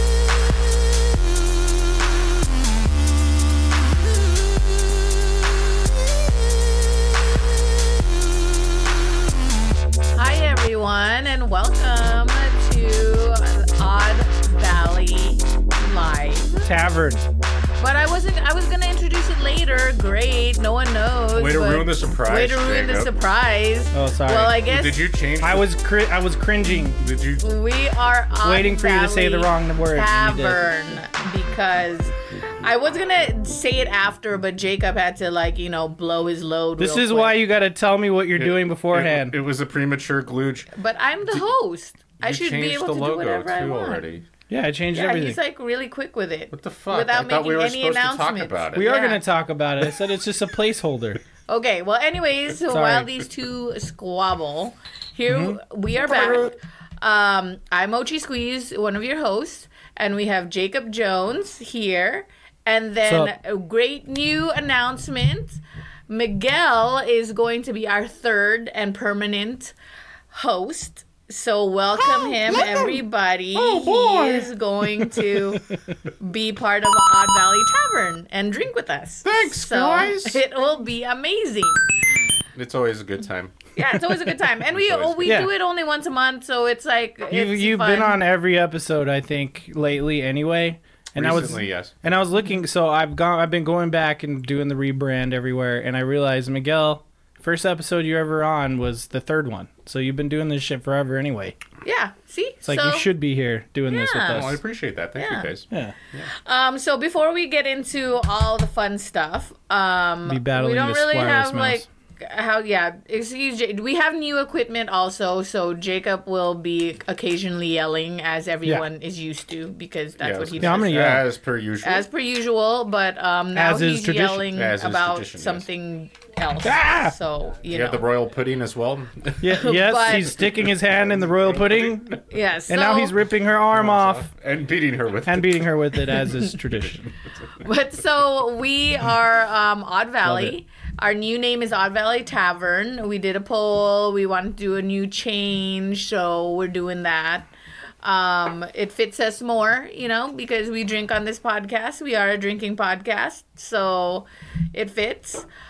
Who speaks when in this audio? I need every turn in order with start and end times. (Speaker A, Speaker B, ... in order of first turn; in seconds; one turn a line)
Speaker A: 10.2-16.7
Speaker B: 16.6-17.2
Speaker A: 17.8-25.1
Speaker C: 21.3-23.1
Speaker B: 23.9-24.6
Speaker C: 24.6-25.7
Speaker B: 25.4-27.0
Speaker C: 27.0-27.5
Speaker A: 27.4-37.4
Speaker B: 28.4-30.7
Speaker B: 36.8-39.4
Speaker C: 38.4-40.7
Speaker A: 40.7-44.0
Speaker C: 42.2-44.2
Speaker B: 44.5-45.4
Speaker A: 44.9-49.2
Speaker C: 46.5-48.9
Speaker B: 48.7-51.2
Speaker A: 51.5-69.7
Speaker B: 52.7-53.1
Speaker B: 55.3-55.6
Speaker B: 63.0-63.3
Speaker A: 70.3-75.7
Speaker C: 72.0-73.0
Speaker C: 73.5-74.5
Speaker A: 76.2-81.9
Speaker C: 79.2-80.4
Speaker C: 82.5-83.5
Speaker A: 83.8-88.2
Speaker C: 84.7-85.4
Speaker B: 85.2-85.5
Speaker B: 87.3-101.5
Speaker C: 91.1-91.9
Speaker A: 101.8-103.1
Speaker B: 102.7-104.6
Speaker A: 103.9-104.5
Speaker C: 104.3-106.3
Speaker A: 105.2-105.5
Speaker A: 106.4-121.1
Speaker B: 110.2-111.8
Speaker C: 120.2-122.1
Speaker B: 120.6-121.2
Speaker A: 121.8-128.1
Speaker B: 123.5-124.4
Speaker C: 124.5-125.7
Speaker B: 126.6-127.1
Speaker C: 127.7-129.6
Speaker B: 129.4-132.1
Speaker A: 129.6-130.4
Speaker C: 130.4-132.2
Speaker A: 132.3-133.2
Speaker B: 132.7-134.3
Speaker C: 133.7-135.7
Speaker B: 135.2-137.1
Speaker A: 137.6-147.5
Speaker B: 140.2-140.5
Speaker A: 148.0-155.4